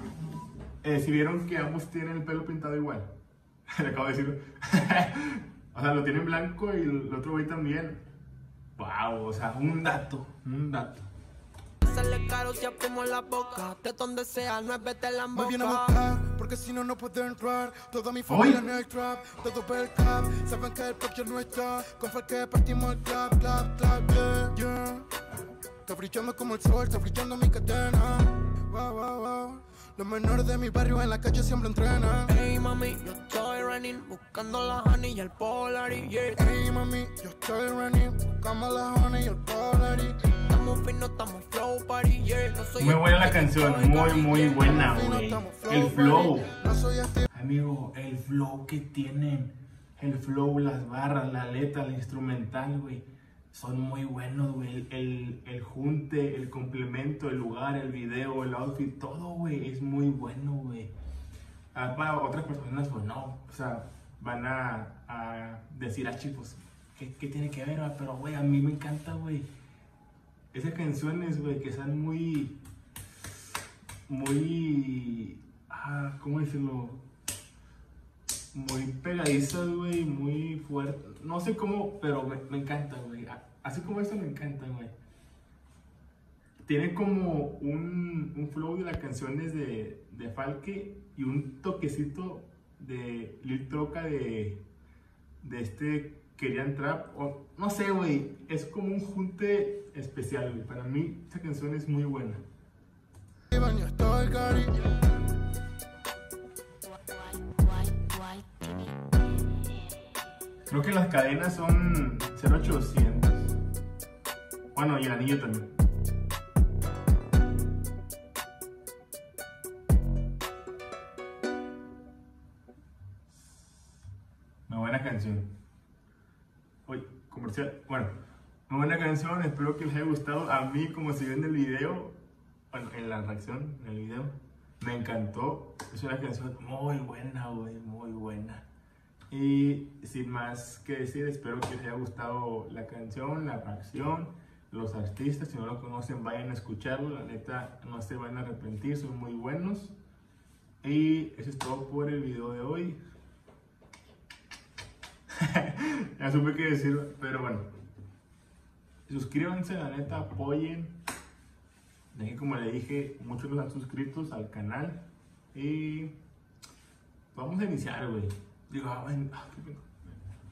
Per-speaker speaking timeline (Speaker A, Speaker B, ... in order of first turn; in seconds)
Speaker A: 0.8-3.1, 3.7-8.0, 8.8-11.0, 18.3-18.6, 42.8-46.5, 47.3-60.9, 61.7-69.5, 70.5-72.6, 74.1-77.0, 78.5-84.9, 86.7-94.6, 95.4-102.4, 110.7-113.6, 114.7-115.7, 124.7-125.5, 126.8-128.1, 128.7-132.2, 132.7-138.7, 139.3-149.9, 150.8-153.0, 155.4-157.7, 159.1-160.9, 162.1-166.2, 167.3-169.9
Speaker B: 11.8-15.9, 32.2-36.4, 40.5-44.7, 107.7-108.4
Speaker C: 15.3-25.1, 25.8-32.4, 36.4-40.2, 44.5-47.3, 103.5-104.8